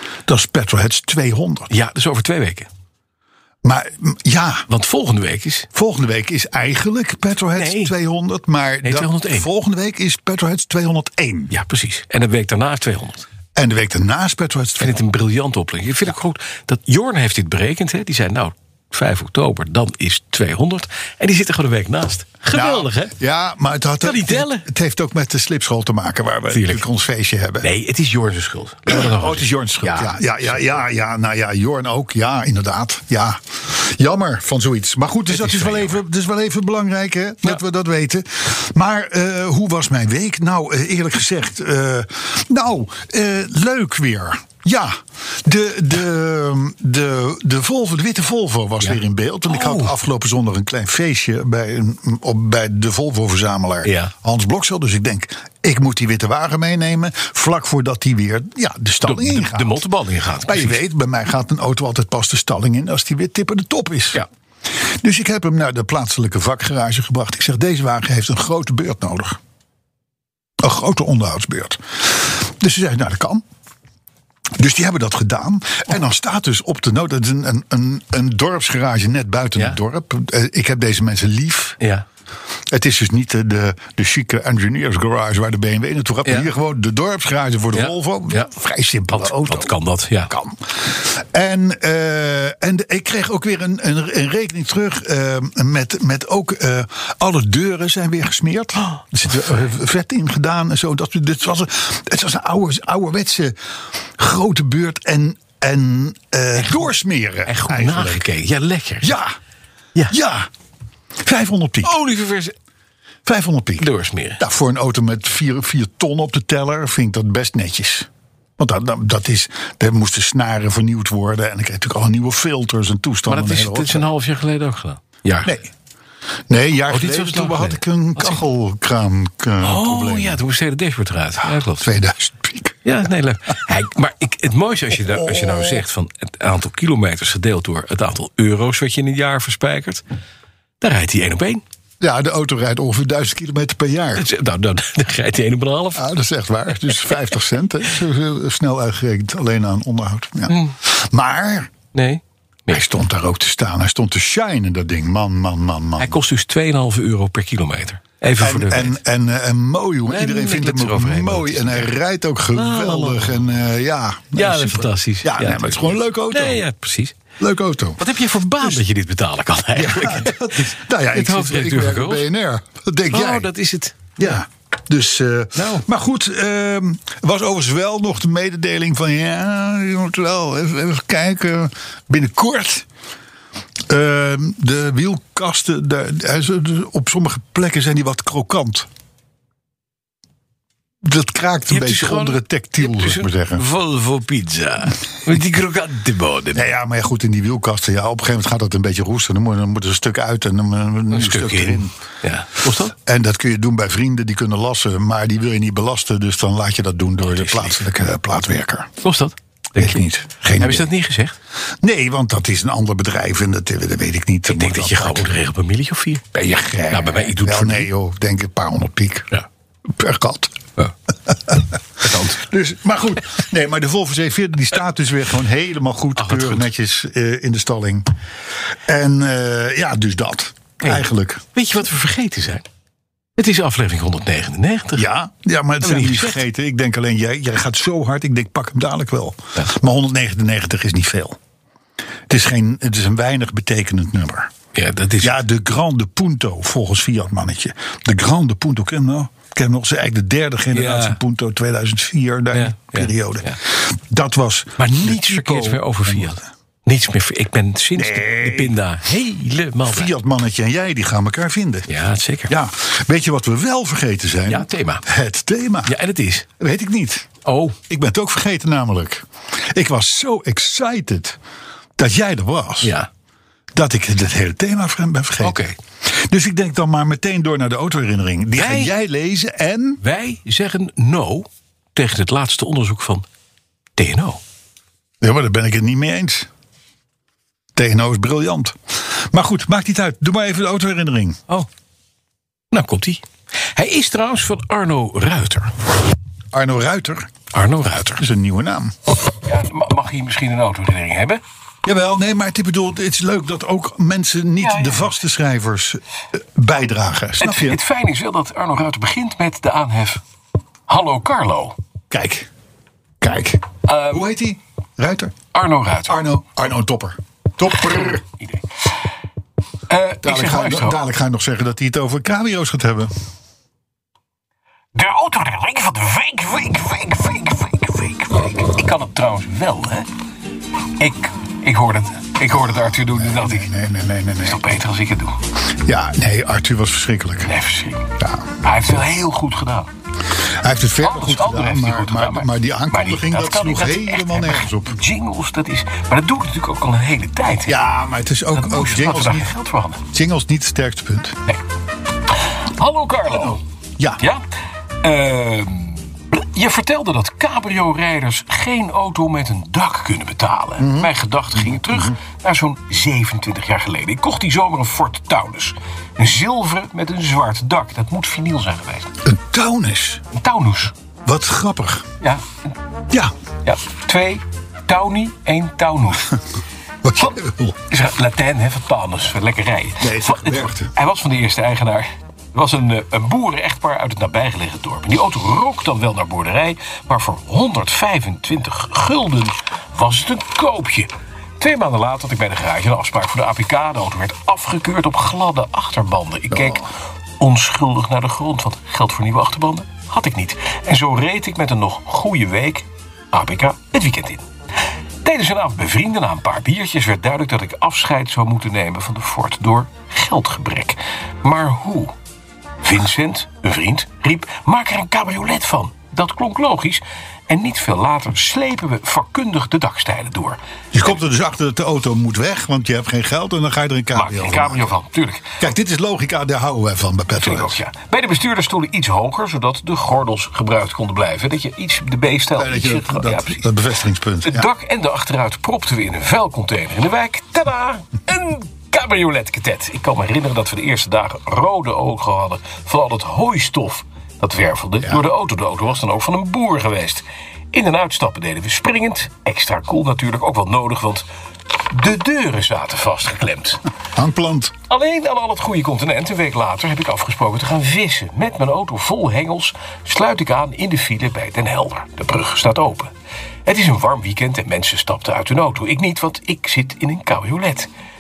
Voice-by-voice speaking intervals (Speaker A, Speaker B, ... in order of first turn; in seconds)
Speaker A: 0.3-1.7, 3.6-4.7, 5.7-11.5, 13.6-15.0, 22.5-27.7, 28.9-59.8, 60.5-69.4, 70.6-73.4, 74.6-81.8, 82.7-89.8, 90.3-103.6, 104.2-108.3, 109.0-109.4, 110.1-110.5, 111.2-111.9, 113.3-124.1, 126.5-130.4, 131.7-132.8, 135.0-135.8, 142.0-144.3, 145.9-151.7, 152.7-156.2, 158.4-166.6, 167.4-168.0, 169.7-173.5, 174.2-182.9, 183.9-188.9, 191.0-193.7, 196.5-201.9, 203.0-208.9, 209.8-210.9, 211.8-215.4, 216.3-219.3, 219.9-220.6, 221.3-228.1, 228.9-231.4, 235.0-241.4, 242.3-244.5, 245.2-256.4, 258.0-258.8, 259.9-261.9, 262.5-266.0, 266.6-267.3, 267.9-271.4, 272.0-273.0, 273.7-280.0, 285.2-286.5, 287.8-291.4, 296.5-297.3, 298.2-298.9, 301.9-307.8, 312.1-312.5, 313.2-315.4, 316.1-318.2, 320.2-323.1, 332.5-334.6, 335.8-337.5, 338.2-338.7, 340.5-345.0, 347.7-349.5, 350.1-351.4, 353.3-354.2, 360.8-361.1, 369.2-370.2, 371.2-372.1, 377.0-377.8, 380.0-380.9, 396.5-396.9, 420.9-424.9, 425.6-427.8, 432.6-434.7, 454.2-454.8
Speaker B: 1.7-2.7, 4.7-5.7, 7.6-7.9, 8.8-9.5, 11.5-13.3, 14.8-23.1, 24.0-24.7, 26.5-26.9, 27.6-30.6, 35.3-36.0, 48.8-50.0, 53.8-54.1, 59.0-60.8, 81.8-82.0, 86.3-86.5, 87.7-88.5, 89.1-90.3, 106.6-106.8, 107.5-109.2, 111.8-112.5, 113.8-114.4, 123.3-125.6, 126.9-128.4, 129.6-131.9, 132.8-140.0, 140.8-141.6, 144.2-146.1, 150.5-150.8, 151.9-152.9, 156.0-159.0, 160.1-161.9, 162.5-163.5, 164.3-167.2, 168.0-172.3, 173.1-174.3, 175.6-175.8, 191.7-196.7, 201.1-202.9, 207.2-207.8, 209.0-210.0, 210.6-211.4, 214.5-216.3, 216.9-217.9, 222.0-222.4, 226.2-226.7, 230.8-232.7, 233.4-235.1, 235.8-236.4, 244.7-245.4, 250.7-251.2, 252.5-253.6, 254.8-260.1, 261.9-262.5, 264.5-265.1, 265.9-266.5, 267.4-267.8, 272.8-273.1, 275.4-275.8, 278.6-278.9, 280.0-283.3, 284.0-284.4, 292.7-293.2, 293.8-295.8, 297.5-298.2, 299.4-301.4, 304.6-305.1, 307.4-310.2, 310.9-311.8, 313.9-314.3, 315.5-316.3, 319.9-321.1, 324.9-330.1, 331.0-333.7, 334.4-335.4, 337.4-339.9, 341.0-347.8, 348.5-350.0, 352.8-353.6, 355.0-369.2, 370.3-370.9, 373.6-376.4, 377.9-404.4, 405.2-412.1, 412.8-420.6, 424.1-425.4, 427.4-433.6, 434.5-451.2, 451.9-453.8, 454.9-463.1, 463.7-467.9